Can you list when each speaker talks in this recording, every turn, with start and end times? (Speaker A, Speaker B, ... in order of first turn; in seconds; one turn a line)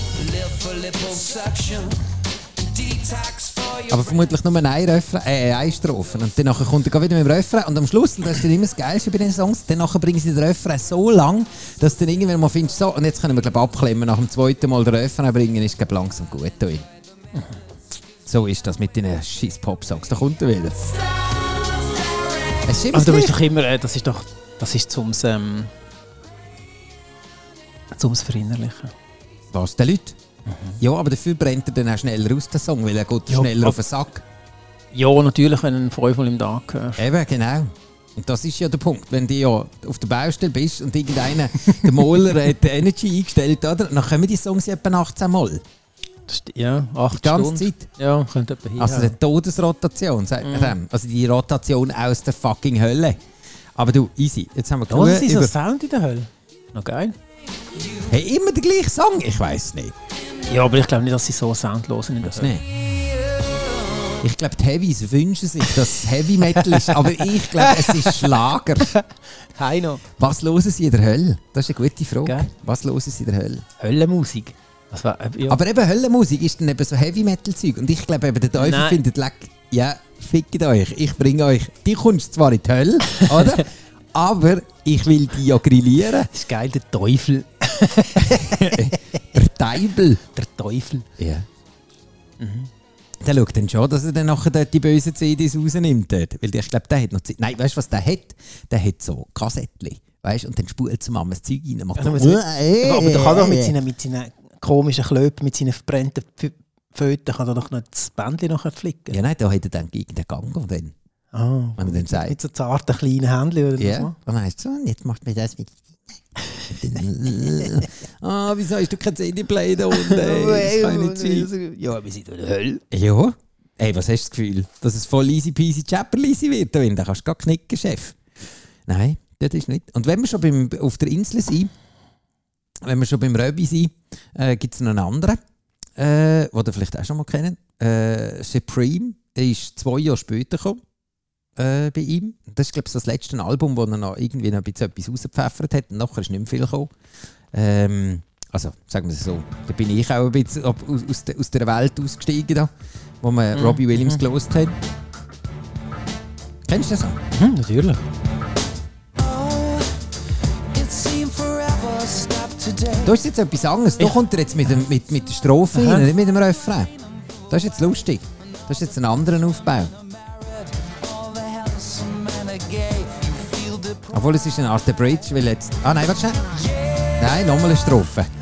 Speaker A: 0.3-2.0
Speaker A: 2.8-3.8
Speaker B: 3.9-16.9
Speaker C: 17.3-17.6
Speaker B: 18.2-20.9
Speaker B: 22.6-23.4
Speaker C: 22.9-25.7
Speaker C: 27.9-28.9
Speaker B: 29.5-30.2
Speaker C: 30.5-30.8
Speaker B: 30.8-34.2
Speaker C: 33.3-33.8
Speaker C: 34.9-37.0
Speaker B: 37.0-45.6
Speaker C: 46.3-49.2
Speaker B: 47.1-47.9
Speaker B: 48.8-53.2
Speaker C: 50.4-50.8
Speaker B: 53.8-55.5
Speaker C: 54.9-57.2
Speaker B: 58.1-60.0
Speaker C: 60.4-62.6
Speaker B: 62.2-62.6
Speaker B: 64.2-69.0
Speaker C: 66.4-70.1
Speaker B: 70.2-73.6
Speaker C: 72.2-72.5
Speaker C: 73.8-75.6
Speaker B: 75.5-86.3
Speaker C: 78.5-79.0
Speaker C: 83.3-83.6
Speaker C: 86.3-89.0
Speaker B: 88.3-90.2
Speaker C: 90.2-91.1
Speaker B: 91.2-91.5
Speaker C: 92.4-92.7
Speaker B: 93.2-103.8
Speaker C: 102.0-109.2
Speaker B: 109.1-110.9
Speaker C: 111.3-114.2
Speaker B: 111.8-112.4
Speaker B: 113.8-116.0
Speaker B: 116.7-121.5
Speaker C: 117.5-117.8
Speaker C: 119.9-122.8
Speaker B: 122.9-128.2
Speaker B: 128.9-131.7
Speaker B: 132.8-135.4
Speaker B: 136.0-140.8
Speaker B: 141.6-146.9
Speaker B: 147.5-152.7
Speaker B: 153.2-154.8
Speaker C: 153.5-154.2
Speaker B: 156.7-157.2
Speaker C: 157.3-158.1
Speaker A: 160.7-162.8
Speaker B: 163.0-166.9
Speaker C: 165.7-166.1
Speaker B: 167.5-169.9
Speaker A: 171.2-173.9
Speaker B: 174.1-178.3